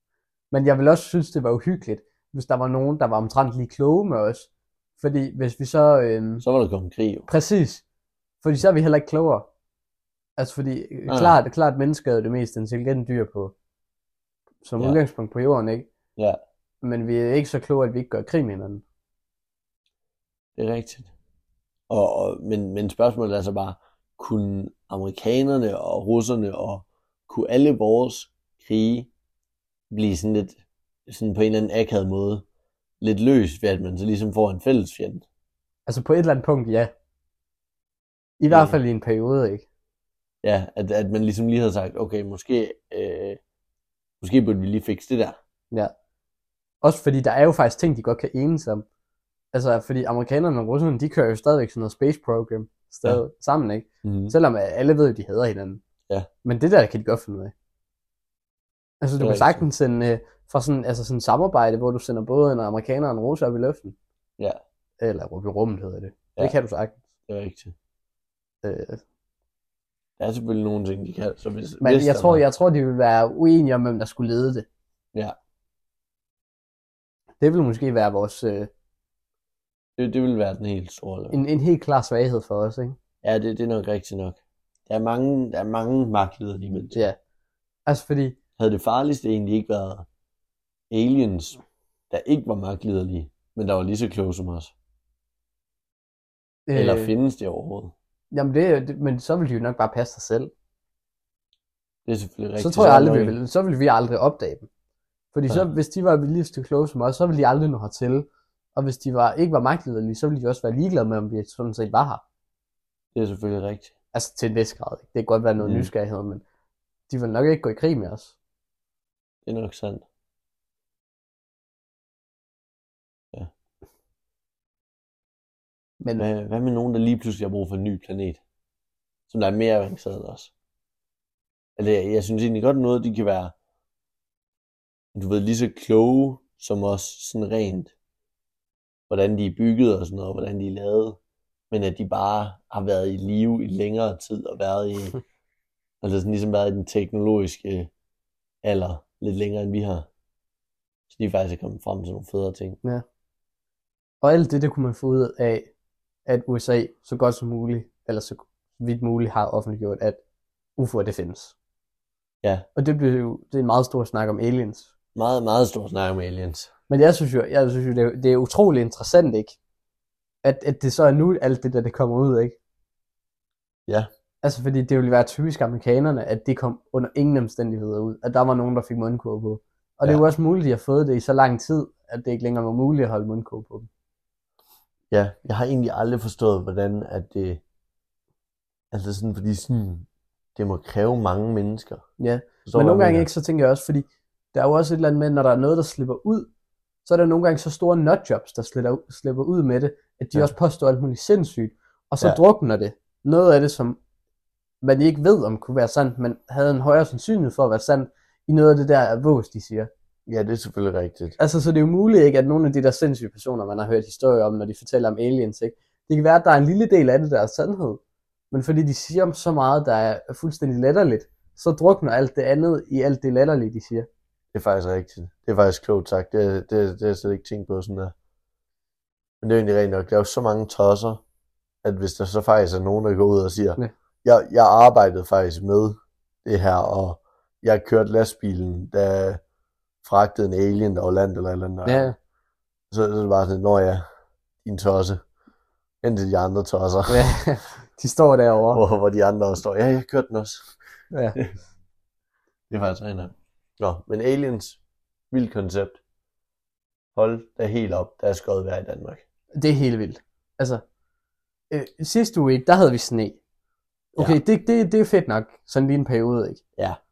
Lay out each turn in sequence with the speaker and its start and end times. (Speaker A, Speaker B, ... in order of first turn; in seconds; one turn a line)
Speaker A: 0.5-6.4
Speaker B: 6.4-7.3
Speaker A: 7.3-7.8
Speaker A: 8.4-9.5
Speaker A: 10.4-13.5
Speaker B: 11.1-11.4
Speaker A: 14.6-15.9
Speaker A: 16.8-18.8
Speaker B: 20.6-21.1
Speaker B: 21.9-29.1
Speaker B: 29.9-32.4
Speaker B: 33.0-35.2
Speaker A: 35.9-36.9
Speaker A: 38.4-39.6
Speaker B: 38.5-38.8
Speaker B: 40.4-43.4
Speaker B: 44.2-45.4
Speaker A: 46.8-48.8
Speaker A: 49.5-55.8
Speaker B: 54.0-54.3
Speaker A: 56.4-57.5
Speaker A: 59.0-64.0
Speaker B: 59.2-59.6
Speaker A: 65.0-67.0
Speaker B: 67.3-67.7
Speaker A: 68.6-69.0
Speaker B: 70.2-72.4
Speaker A: 71.8-74.7
Speaker A: 77.4-78.7
Speaker B: 80.0-81.4
Speaker A: 81.3-83.0
Speaker B: 83.2-87.0
Speaker A: 87.8-88.4
Speaker B: 88.6-90.1
Speaker B: 90.9-91.6
Speaker B: 92.1-94.7
Speaker A: 96.7-97.1
Speaker B: 96.7-97.9
Speaker A: 98.3-100.5
Speaker B: 102.0-103.3
Speaker A: 102.6-104.7
Speaker A: 105.3-112.2
Speaker B: 113.1-113.9
Speaker A: 114.1-116.4
Speaker B: 115.6-115.9
Speaker A: 117.1-118.3
Speaker B: 119.5-120.0
Speaker B: 126.2-128.4
Speaker B: 129.3-130.5
Speaker B: 131.8-133.5
Speaker B: 135.1-137.9
Speaker B: 139.1-141.2
Speaker B: 141.7-145.2
Speaker B: 146.0-147.9
Speaker B: 148.6-150.1
Speaker B: 151.1-152.8
Speaker A: 154.2-155.7
Speaker A: 156.2-160.2
Speaker A: 160.8-161.5
Speaker A: 162.8-164.9
Speaker B: 165.1-166.7
Speaker A: 166.9-169.6
Speaker A: 170.4-172.6
Speaker A: 174.4-183.9
Speaker B: 185.1-187.6
Speaker B: 188.9-192.0
Speaker A: 192.2-196.5
Speaker B: 192.6-193.3
Speaker A: 197.0-204.0
Speaker A: 204.8-209.9
Speaker B: 210.3-211.4
Speaker A: 211.4-218.0
Speaker A: 218.5-224.1
Speaker B: 224.5-228.1
Speaker B: 229.4-231.2
Speaker B: 231.8-239.4
Speaker B: 240.0-242.1
Speaker A: 241.8-242.1
Speaker B: 242.9-244.0
Speaker B: 244.6-245.2
Speaker B: 246.0-247.3
Speaker A: 247.1-248.8
Speaker B: 248.7-250.7
Speaker A: 251.1-251.4
Speaker B: 252.7-254.8
Speaker B: 255.3-256.0
Speaker B: 257.1-259.2
Speaker A: 259.6-260.8
Speaker A: 261.7-263.4
Speaker A: 264.1-266.6